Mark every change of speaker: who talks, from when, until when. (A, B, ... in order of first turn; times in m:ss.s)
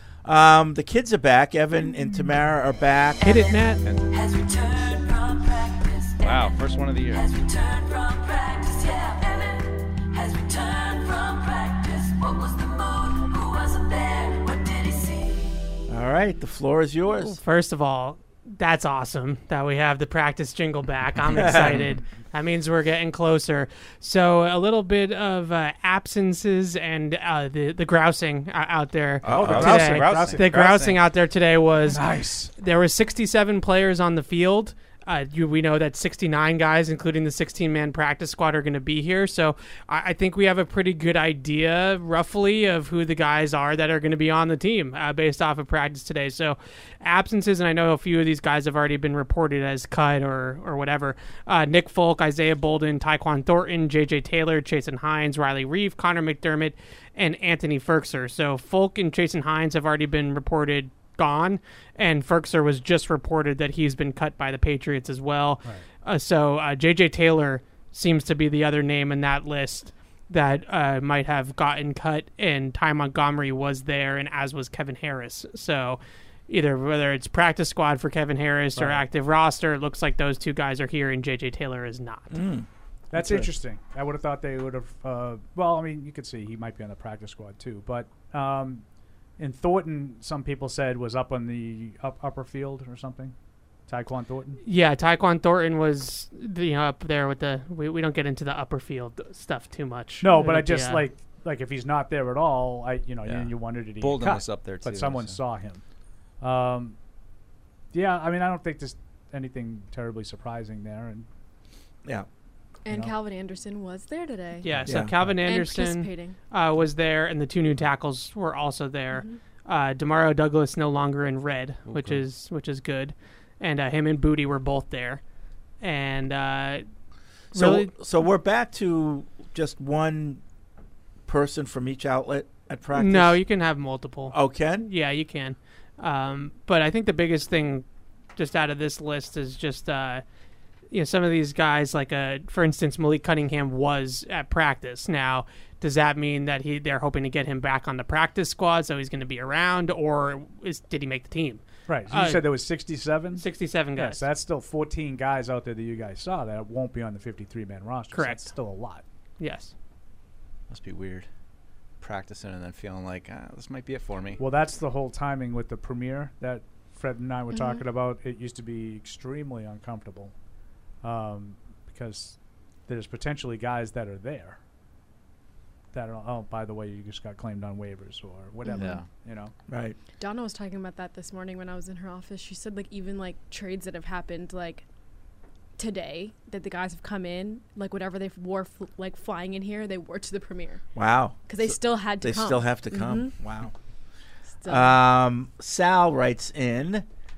0:00.2-0:03.2 A
0:03.2-0:06.6 B
0:03.2-0:03.8 C
0:06.2-0:07.3 D
0:07.1-0:15.7 B
0:15.9-0:17.4 A
0:17.2-1:22.4 C
0:21.4-0:21.8 A
0:29.2-0:31.0 D
0:29.3-0:29.6 A
0:29.3-0:30.8 E
0:31.9-0:32.5 E
1:18.8-1:19.0 E
1:22.3-1:23.5 A
1:23.1-1:28.8 E
1:29.4-1:33.3 E
1:33.9-1:34.6 E
1:34.6-1:41.0 C
1:40.2-1:45.8 E
1:43.2-1:45.4 D
1:46.4-1:47.0 E
1:47.9-1:51.3 E
1:52.8-1:54.9 F
1:52.9-1:53.2 E
1:54.6-2:05.2 C
1:54.9-1:55.1 A
1:55.4-1:56.4 F
2:01.9-2:02.2 D
2:05.8-2:06.9 C
2:07.5-2:07.9 C
2:07.5-2:10.4 A
2:11.3-2:13.4 A
2:12.9-2:17.8 C
2:14.3-2:14.8 A
2:18.4-2:20.2 C
2:20.9-2:32.4 C
2:31.9-2:39.0 E
2:33.4-2:34.3 C
2:38.1-2:38.5 C
2:39.4-2:39.7 C
2:40.7-2:41.3 D
2:42.0-2:44.4 D
2:44.4-2:50.3 E
2:47.6-2:47.8 F
2:51.0-2:54.6 E
2:55.9-2:59.5 E
2:58.7-2:59.0 F
2:58.8-2:59.1 D
2:59.7-3:00.0 A
3:00.2-3:04.8 F
3:05.8-3:10.8 F
3:11.0-3:13.7 A
3:11.5-3:13.3 F
3:14.6-3:15.0 F
3:14.7-3:17.1 A